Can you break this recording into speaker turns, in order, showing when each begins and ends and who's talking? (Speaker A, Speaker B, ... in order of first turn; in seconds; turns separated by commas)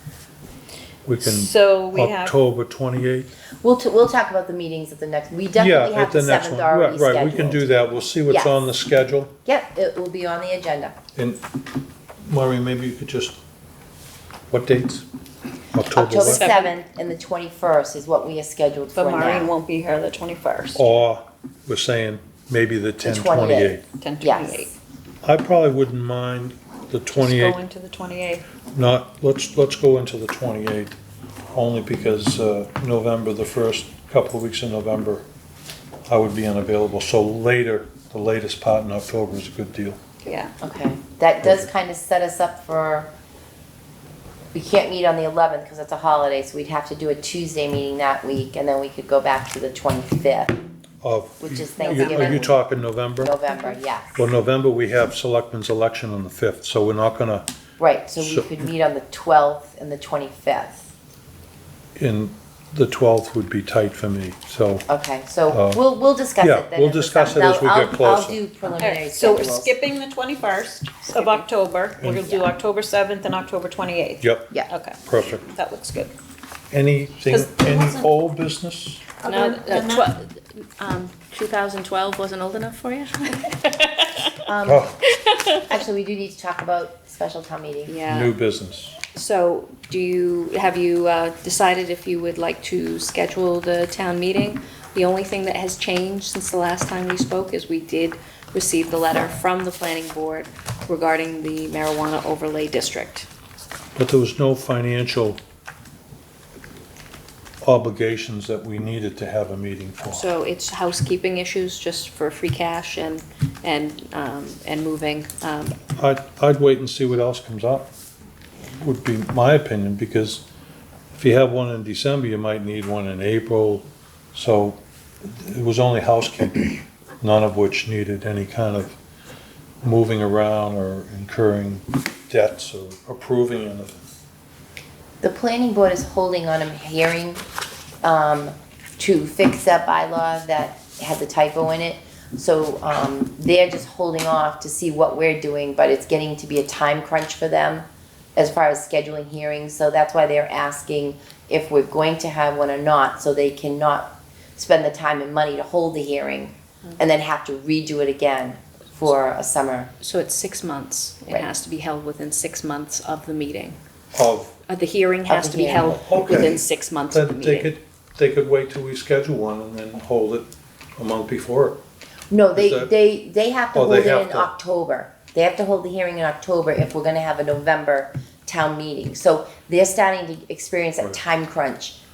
Speaker A: 1.1-3.3, Speaker B: 1.2-2.4, Speaker C: 3.6-8.6, Speaker A: 5.6-9.3, Speaker C: 9.4-10.9, Speaker A: 11.2-11.4, Speaker A: 12.2-13.4, Speaker A: 14.5-15.1, Speaker A: 15.7-16.5, Speaker C: 15.9-19.5, Speaker D: 16.2-16.7, Speaker B: 18.9-20.9, Speaker A: 20.8-23.8, Speaker C: 23.0-24.7, Speaker B: 24.0-24.7, Speaker A: 25.2-27.6, Speaker B: 27.1-28.5, Speaker A: 28.7-31.0, Speaker A: 31.5-35.3, Speaker A: 36.1-40.0, Speaker B: 40.3-40.5, Speaker C: 40.6-43.1, Speaker C: 44.5-50.6, Speaker A: 51.0-53.4, Speaker C: 51.4-52.6, Speaker D: 51.9-52.4, Speaker C: 53.2-54.1, Speaker A: 54.1-57.5, Speaker C: 57.8-60.9, Speaker A: 58.2-58.6, Speaker A: 62.0-64.9, Speaker C: 64.9-69.7, Speaker A: 65.5-65.8, Speaker A: 66.4-68.4, Speaker B: 68.8-76.1, Speaker D: 71.1-71.5, Speaker A: 72.0-72.3, Speaker D: 72.1-72.5, Speaker A: 74.2-74.5, Speaker A: 75.0-75.4, Speaker A: 76.7-79.0, Speaker B: 77.3-78.1, Speaker B: 79.2-80.1, Speaker D: 79.3-84.4, Speaker C: 84.5-84.9, Speaker A: 84.7-85.0, Speaker D: 85.1-85.7, Speaker C: 85.7-88.0, Speaker D: 87.9-88.3, Speaker A: 88.1-89.0, Speaker D: 89.1-103.3, Speaker A: 104.0-105.4, Speaker A: 107.6-110.3, Speaker D: 110.1-115.8, Speaker A: 116.0-117.9, Speaker A: 118.7-120.5, Speaker A: 121.1-129.0, Speaker A: 129.8-134.0, Speaker C: 135.2-137.4, Speaker C: 138.0-159.9, Speaker D: 160.0-163.8, Speaker A: 164.1-164.6, Speaker D: 164.7-167.7, Speaker C: 165.3-166.2, Speaker A: 166.0-171.8, Speaker C: 172.3-182.0, Speaker A: 172.6-172.9, Speaker A: 173.7-174.5